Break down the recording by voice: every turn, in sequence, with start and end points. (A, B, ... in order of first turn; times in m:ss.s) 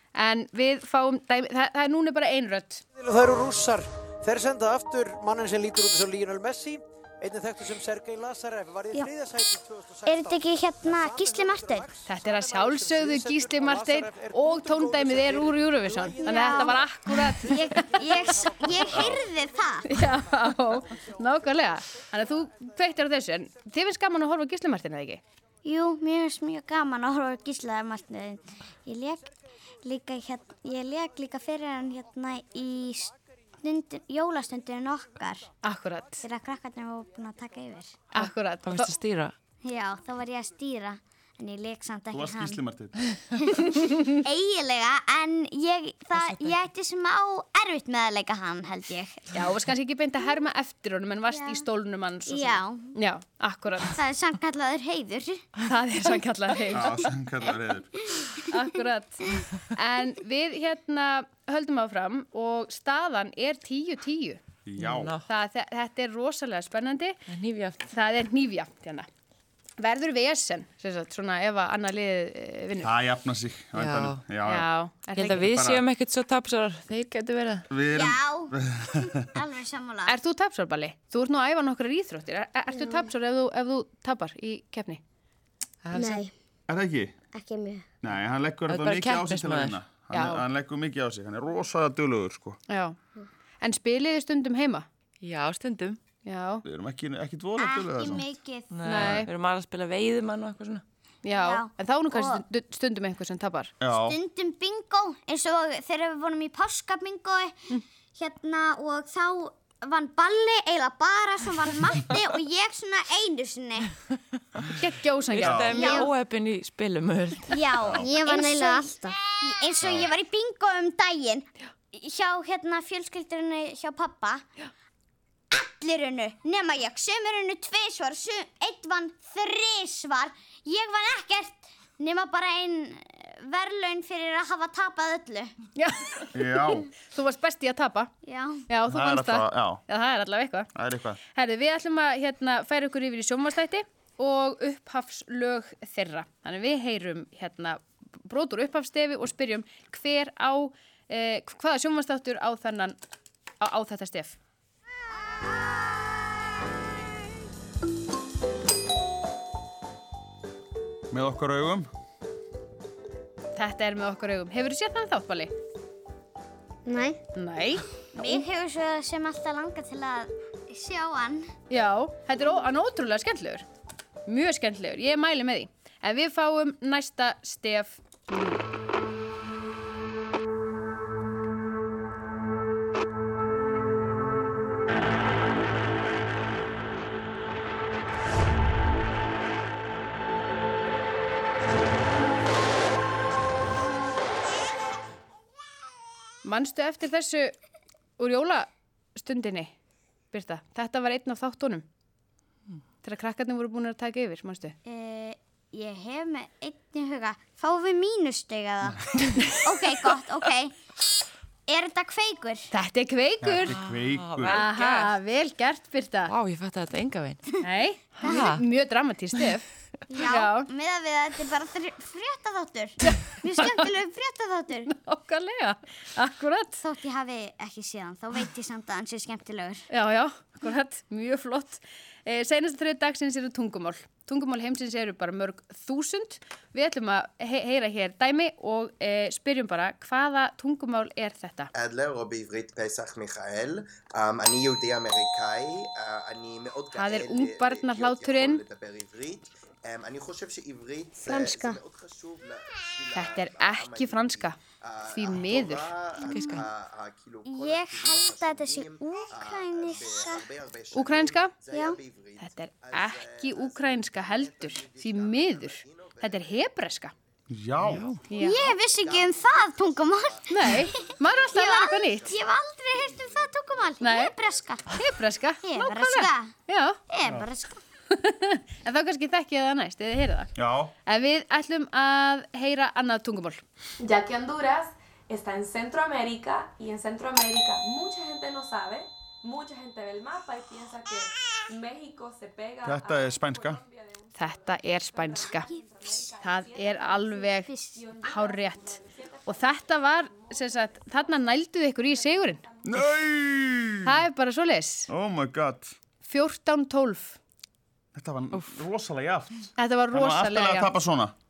0:00.1-0:02.8 A
0:02.9-0:19.4 B
0:10.1-0:11.8 C
0:12.0-0:18.0 A
0:18.4-0:19.0 D
0:18.9-0:19.2 E
0:19.0-0:19.8 C
0:19.8-0:25.2 A
0:25.6-0:35.4 C
0:35.6-0:36.2 A
0:36.2-0:38.0 C
0:38.1-0:38.9 A
0:38.2-0:39.4 F
0:39.6-0:42.6 C
0:42.1-0:43.0 E
0:43.3-0:49.3 C
0:46.1-0:46.6 F
0:49.3-0:54.0 A
0:51.3-0:51.6 C
0:52.3-0:52.9 C
0:53.9-0:55.4 C
0:55.6-0:57.0 A
0:56.7-0:58.1 E
0:58.5-1:04.4 A
1:04.6-1:05.1 E
1:04.8-1:05.2 F
1:05.3-1:07.2 A
1:07.3-1:07.8 F
1:07.8-1:09.0 A
1:09.8-1:12.9 A
1:12.8-1:14.7 E
1:13.8-1:14.2 F
1:14.4-1:15.5 A
1:15.1-1:17.6 F
1:15.4-1:15.8 E
1:17.7-1:19.2 E
1:18.0-1:18.5 C
1:19.3-1:20.1 C
1:20.1-1:25.0 A
1:25.8-1:26.2 F
1:25.9-1:26.3 G
1:26.7-1:27.1 E
1:27.3-1:27.8 G
1:28.0-1:32.6 E
1:28.7-1:29.8 F
1:30.1-1:30.4 A
1:32.7-1:33.0 A
1:33.6-1:34.8 A
1:35.2-1:36.0 F
1:36.2-1:36.6 A
1:36.6-1:38.2 E
1:37.6-1:38.6 C
1:38.7-1:40.8 F
1:38.8-1:39.3 A
1:38.9-1:39.3 E
1:41.2-1:43.7 A
1:41.5-1:42.4 C
1:43.8-1:44.2 E
1:44.2-1:47.6 C
1:48.1-1:53.8 C
1:54.8-1:56.1 A
1:55.3-1:57.6 F
1:55.4-1:55.8 E
1:55.7-1:56.1 G
1:57.7-1:58.4 C
1:57.8-1:58.1 E
1:57.9-1:59.7 G
1:59.6-2:01.4 C
1:59.8-2:00.1 E
2:02.0-2:04.4 C
2:05.8-2:15.5 C
2:13.0-2:13.4 D
2:15.1-2:15.4 D
2:15.8-2:18.1 A
2:16.3-2:16.9 E
2:18.7-2:20.7 A
2:18.9-2:19.8 E
2:20.7-2:21.2 E
2:21.3-2:33.0 A
2:33.6-2:34.4 A
2:41.1-2:41.9 E
2:43.5-2:45.5 A
2:46.8-2:47.2 G
2:47.3-2:48.4 A
2:48.3-2:50.3 D
2:49.0-2:51.4 C
2:51.7-2:53.6 A
2:54.2-2:58.6 A
3:16.4-3:17.5 A
3:18.2-3:19.7 A
3:20.3-3:21.8 A
3:23.0-3:24.8 A
3:24.9-3:29.0 C
3:24.9-3:25.2 D
3:29.6-3:30.7 C
3:31.7-3:32.7 C
3:32.7-3:33.8 A
3:33.4-3:34.6 E
3:33.7-3:35.1 F
3:34.5-3:36.3 A
3:36.3-3:37.4 F
3:37.6-3:39.6 A
3:38.2-3:38.6 F
3:40.1-3:44.9 C
3:40.2-3:40.7 A
3:43.0-3:44.0 A
3:44.9-3:46.8 A
3:46.8-3:49.8 C
3:49.9-4:01.7 A
4:01.8-4:07.4 D
4:06.9-4:08.6 A
4:07.7-4:11.0 C
4:08.4-4:09.4 D
4:10.7-4:11.9 D
4:11.1-4:11.8 G
4:12.0-4:12.6 C
4:13.1-4:15.9 A
4:13.2-4:14.4 C
4:15.1-4:15.8 C
4:16.1-4:21.0 D
4:16.2-4:16.6 F
4:16.4-4:22.2 C
4:20.9-4:21.5 A
4:21.7-4:22.3 D
4:22.4-4:27.1 A
4:23.4-4:25.6 C
4:25.8-4:26.2 D
4:27.5-4:28.1 E
4:27.8-4:28.2 F
4:28.3-4:28.7 A
4:28.4-4:35.0 D
4:28.4-4:34.9 C
4:30.5-4:32.4 A
4:34.0-4:34.3 A
4:34.9-4:37.0 A
4:35.6-4:36.5 C
4:37.1-4:37.8 C
4:38.1-4:40.5 A
4:40.6-4:40.9 E
4:41.0-4:43.6 A
4:44.0-5:01.3 H
4:52.8-4:53.8 E
4:54.3-4:55.6 A
4:56.4-5:02.6 A
5:02.0-5:02.8 H
5:02.8-5:04.2 E
5:04.0-5:05.1 A
5:05.1-5:05.9 E
5:06.2-5:07.4 A
5:08.1-5:11.3 E
5:08.5-5:08.8 F
5:09.8-5:10.9 A